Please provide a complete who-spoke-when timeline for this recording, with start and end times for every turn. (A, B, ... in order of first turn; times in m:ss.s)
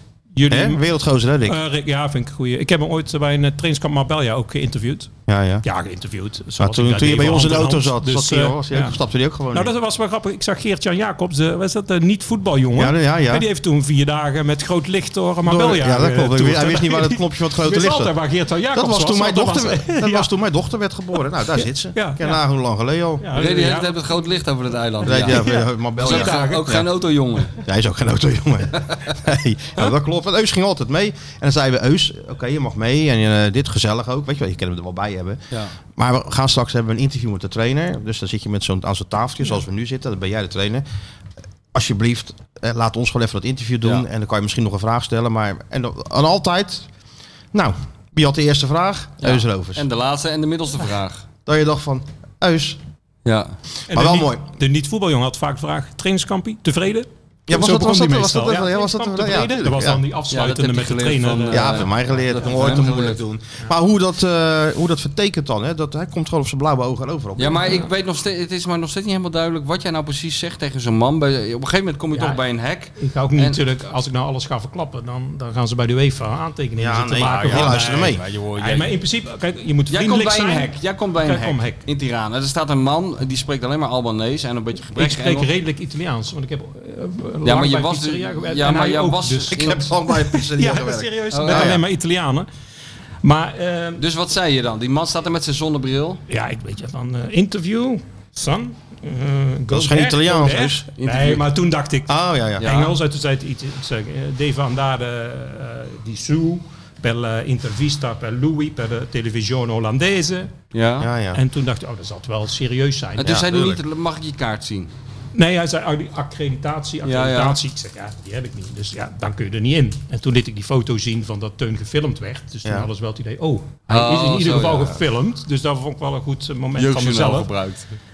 0:00.3-0:00.8 A
0:00.5-0:01.6 B
0:01.4-0:05.1 A
0:05.3-0:05.6 B
0:05.6-0:09.0 A
0:06.6-0:09.7 B
0:09.5-0:20.3 A
0:12.8-0:13.4 B
0:15.4-0:18.1 B
0:18.7-0:23.2 B
0:21.6-0:22.4 A
0:23.2-0:24.2 A
0:23.3-0:27.5 C
0:25.0-0:26.8 A
0:25.0-0:26.8 B
0:27.6-0:35.4 B
0:35.9-0:40.8 B
0:41.7-0:46.9 B
0:47.5-0:49.8 B
0:49.2-0:51.2 C
0:51.4-0:52.8 B
0:53.2-0:53.6 C
0:53.9-1:01.9 A
0:53.9-0:54.4 B
0:57.5-1:00.0 B
1:00.3-1:03.2 C
1:01.5-1:07.8 B
1:07.4-1:13.6 C
1:12.1-1:12.4 A
1:13.0-1:21.8 A
1:16.8-1:18.2 B
1:17.2-1:18.9 C
1:19.9-1:25.5 C
1:24.9-1:32.5 A
1:27.4-1:29.8 C
1:29.5-1:31.8 B
1:31.3-1:31.7 C
1:33.2-1:34.0 A
1:34.0-1:36.2 C
1:36.3-1:50.5 A
1:39.7-1:40.8 B
1:41.0-1:41.4 C
1:42.1-1:42.7 B
1:42.6-1:42.9 C
1:50.7-1:51.1 C
1:51.0-1:51.4 B
1:51.3-1:53.4 A
1:53.2-1:54.9 C
1:53.2-1:53.8 B
1:55.3-2:07.5 A
1:57.0-1:57.6 C
2:03.9-2:05.0 C
2:06.8-2:07.9 C